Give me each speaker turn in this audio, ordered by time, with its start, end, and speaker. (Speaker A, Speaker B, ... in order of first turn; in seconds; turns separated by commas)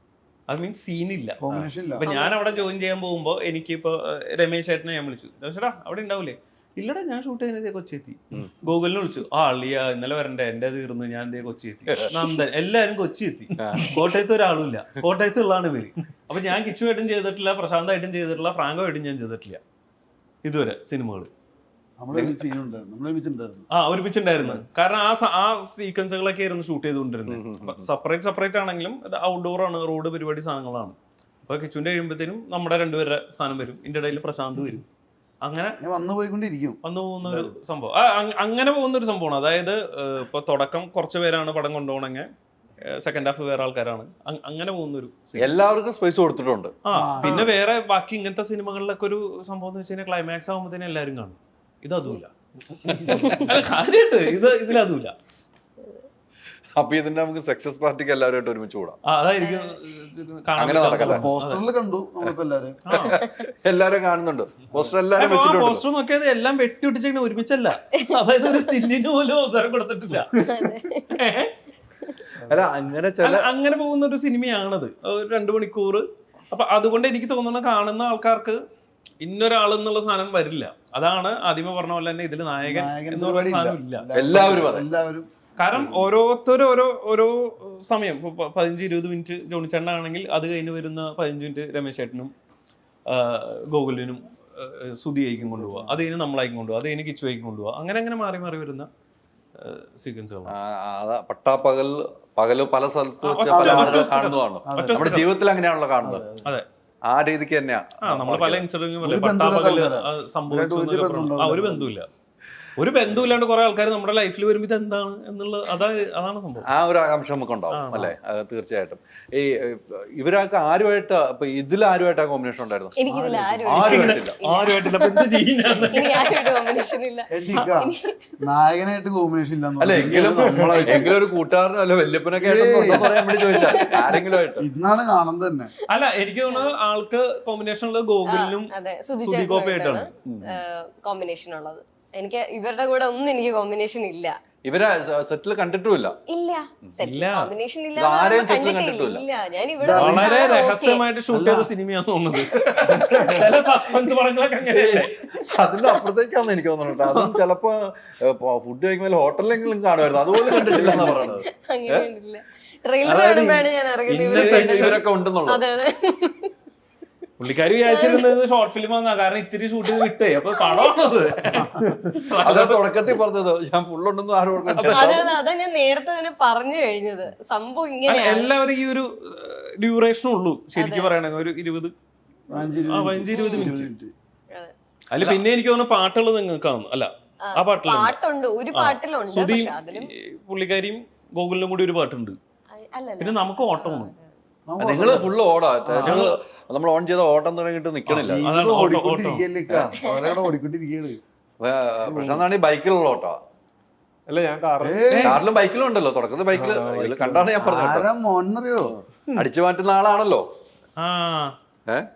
Speaker A: 0.5-1.4, Speaker B: 1.4-2.1, Speaker A: 2.0-19.6, Speaker C: 2.1-2.7, Speaker D: 13.6-13.9, Speaker A: 20.4-21.3, Speaker B: 22.0-23.7, Speaker D: 22.1-22.4, Speaker A: 23.7-34.8, Speaker D: 27.3-27.9, Speaker A: 35.4-35.8, Speaker B: 35.8-37.5, Speaker A: 36.8-42.3, Speaker A: 42.9-45.5, Speaker D: 45.4-46.7, Speaker A: 46.8-55.1, Speaker B: 46.9-47.6, Speaker D: 52.9-53.4, Speaker C: 53.1-53.4, Speaker D: 56.8-59.0, Speaker A: 59.0-61.7, Speaker C: 59.4-59.8, Speaker D: 60.6-61.3, Speaker B: 61.0-62.8, Speaker A: 62.8-63.2, Speaker D: 63.0-65.8, Speaker C: 63.2-63.5, Speaker A: 65.2-71.5, Speaker C: 70.4-71.2, Speaker D: 72.5-73.4, Speaker A: 73.2-78.6, Speaker A: 79.2-84.1, Speaker B: 82.6-86.1, Speaker D: 84.1-84.9, Speaker A: 85.6-92.3, Speaker A: 93.1-98.9, Speaker B: 95.4-96.0, Speaker A: 99.6-100.5, Speaker D: 100.5-106.2, Speaker A: 103.2-105.3, Speaker B: 103.5-104.1, Speaker B: 104.6-105.3, Speaker B: 106.0-106.5, Speaker D: 107.1-108.6, Speaker A: 108.0-112.1, Speaker B: 109.0-112.0, Speaker A: 112.8-116.7, Speaker D: 116.7-122.9, Speaker A: 117.7-118.1, Speaker C: 122.9-128.2, Speaker B: 123.1-123.8, Speaker D: 123.7-124.3, Speaker A: 123.8-126.8, Speaker B: 127.3-131.2, Speaker D: 129.8-134.6, Speaker A: 129.9-130.9, Speaker B: 132.3-133.1, Speaker A: 132.9-133.9, Speaker C: 133.5-134.3, Speaker B: 134.6-135.7, Speaker A: 135.9-140.3, Speaker C: 136.5-136.7, Speaker C: 138.2-144.3, Speaker D: 140.3-140.5, Speaker D: 144.7-146.2, Speaker C: 146.3-151.0, Speaker A: 147.0-147.5, Speaker D: 147.9-149.2, Speaker B: 149.8-150.4, Speaker A: 149.9-155.2, Speaker B: 151.3-151.7, Speaker E: 152.9-153.8, Speaker D: 152.9-153.3, Speaker C: 153.1-153.4, Speaker D: 154.7-162.0, Speaker A: 157.1-157.4, Speaker C: 160.3-166.5, Speaker A: 160.7-161.3, Speaker A: 163.0-165.0, Speaker D: 164.3-165.6, Speaker A: 167.4-173.2, Speaker C: 167.8-168.4, Speaker C: 170.6-171.0, Speaker D: 172.4-175.3, Speaker A: 174.7-175.3, Speaker C: 174.8-178.5, Speaker A: 178.0-181.9, Speaker C: 180.8-181.1, Speaker B: 182.5-184.1, Speaker A: 182.5-183.9, Speaker C: 183.3-183.7, Speaker A: 185.1-188.2, Speaker C: 187.4-190.1, Speaker A: 188.7-192.4, Speaker C: 192.7-194.3, Speaker A: 193.2-194.1, Speaker B: 194.7-196.3, Speaker D: 194.8-198.4, Speaker A: 196.0-196.4, Speaker A: 198.1-199.6, Speaker B: 198.2-201.2, Speaker C: 200.1-200.4, Speaker D: 201.6-203.4, Speaker B: 202.0-202.4, Speaker E: 204.3-205.3, Speaker B: 204.8-205.4, Speaker A: 205.1-205.4, Speaker D: 205.2-208.1, Speaker E: 206.5-207.6, Speaker B: 207.6-208.9, Speaker D: 208.9-210.4, Speaker A: 211.0-211.5